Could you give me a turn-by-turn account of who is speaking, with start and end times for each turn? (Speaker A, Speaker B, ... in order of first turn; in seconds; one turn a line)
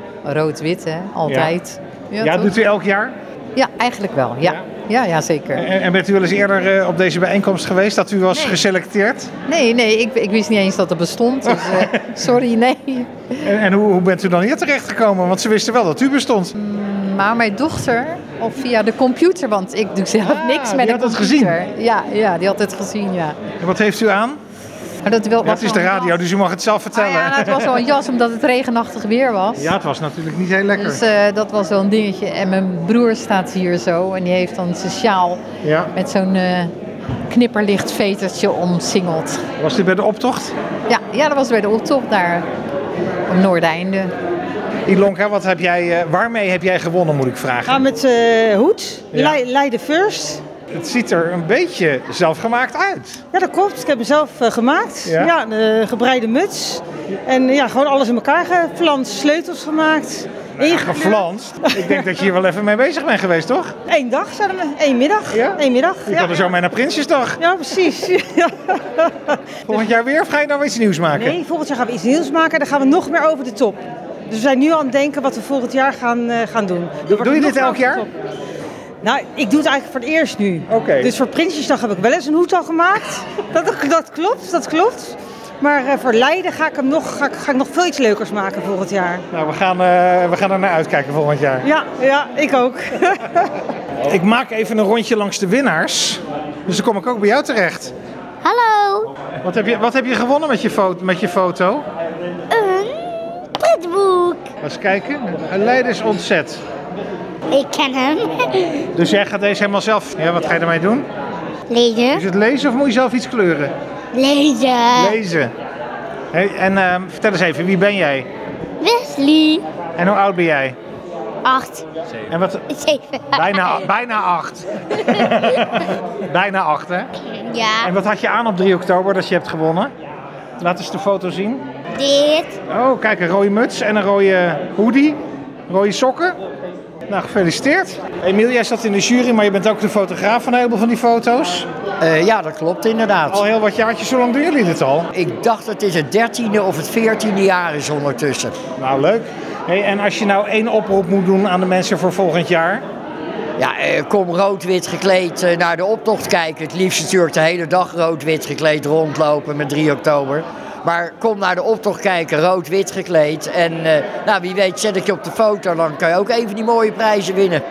Speaker A: 0.2-2.5
Speaker B: 1.3-1.5
Speaker B: 2.2-3.1
Speaker A: 3.5-5.7
Speaker B: 5.5-9.3
Speaker A: 8.3-8.6
Speaker A: 9.5-13.5
Speaker B: 11.4-12.3
Speaker B: 13.4-16.6
Speaker A: 16.6-23.4
Speaker B: 20.2-21.6
Speaker B: 23.6-24.4
Speaker A: 25.0-26.2
Speaker B: 25.4-27.9
Speaker A: 26.9-29.7
Speaker B: 29.6-31.0
Speaker A: 30.8-35.4
Speaker B: 35.6-35.9
Speaker A: 35.9-36.7
Speaker A: 37.3-39.4
Speaker B: 39.6-40.5
Speaker A: 40.9-42.5
Speaker A: 43.3-44.1
Speaker B: 44.9-47.8
Speaker C: 47.7-50.4
Speaker B: 49.1-49.4
Speaker B: 50.7-53.2
Speaker C: 53.3-62.1
Speaker B: 55.1-55.3
Speaker B: 60.6-63.7
Speaker C: 63.9-66.5
Speaker B: 65.3-67.4
Speaker C: 67.4-69.8
Speaker B: 69.7-71.4
Speaker C: 71.1-78.1
Speaker B: 77.1-78.0
Speaker C: 79.0-89.2
Speaker B: 80.7-81.1
Speaker B: 89.3-91.7
Speaker C: 91.6-93.5
Speaker B: 94.0-97.9
Speaker D: 98.4-99.1
Speaker B: 99.4-101.8
Speaker D: 102.5-103.1
Speaker D: 103.6-104.4
Speaker B: 104.6-106.6
Speaker D: 107.5-108.7
Speaker B: 108.9-111.1
Speaker D: 111.7-112.2
Speaker B: 112.1-113.7
Speaker D: 114.1-115.2
Speaker B: 114.9-115.5
Speaker B: 116.3-118.3
Speaker D: 118.8-119.6
Speaker B: 120.0-120.8
Speaker D: 121.4-121.8
Speaker B: 122.3-122.7
Speaker D: 122.8-123.3
Speaker B: 123.3-127.1
Speaker D: 127.3-127.9
Speaker B: 127.8-129.9
Speaker B: 130.6-131.6
Speaker D: 132.0-132.5
Speaker B: 132.7-136.4
Speaker B: 137.1-141.7
Speaker E: 142.0-143.4
Speaker B: 143.3-145.1
Speaker E: 145.1-148.6
Speaker B: 148.8-152.8
Speaker E: 153.6-167.6